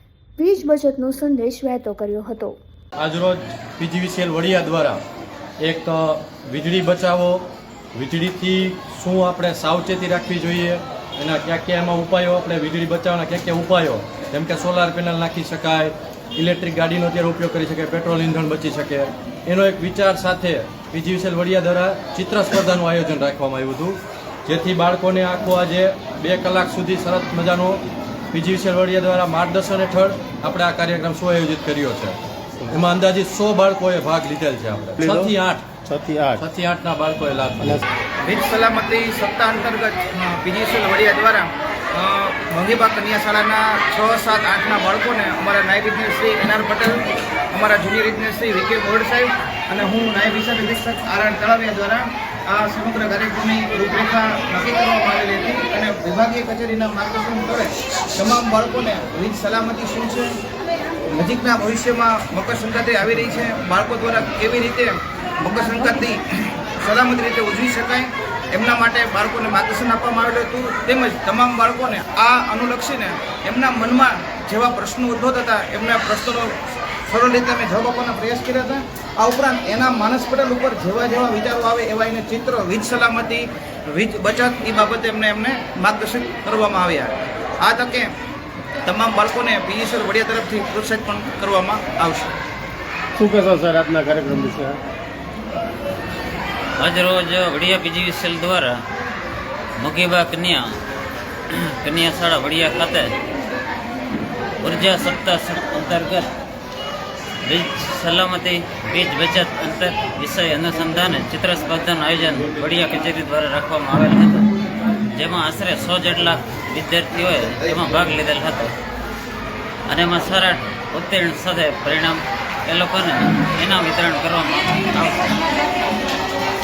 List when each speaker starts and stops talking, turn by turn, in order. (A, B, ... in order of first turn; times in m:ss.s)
0:00.4-0:02.5 A
0:03.0-0:05.0 B
0:05.6-0:35.7 B
0:35.0-0:36.4 C
0:36.4-0:37.8 B
0:38.2-1:00.4 D
1:01.1-1:28.1 D
1:28.8-1:32.3 D
1:33.2-1:34.8 C
1:36.8-1:38.8 E
1:39.8-1:40.6 E
1:41.5-1:43.1 E
1:44.6-1:46.3 E
1:47.4-1:54.5 E
1:55.1-1:58.7 E
1:59.9-2:05.4 E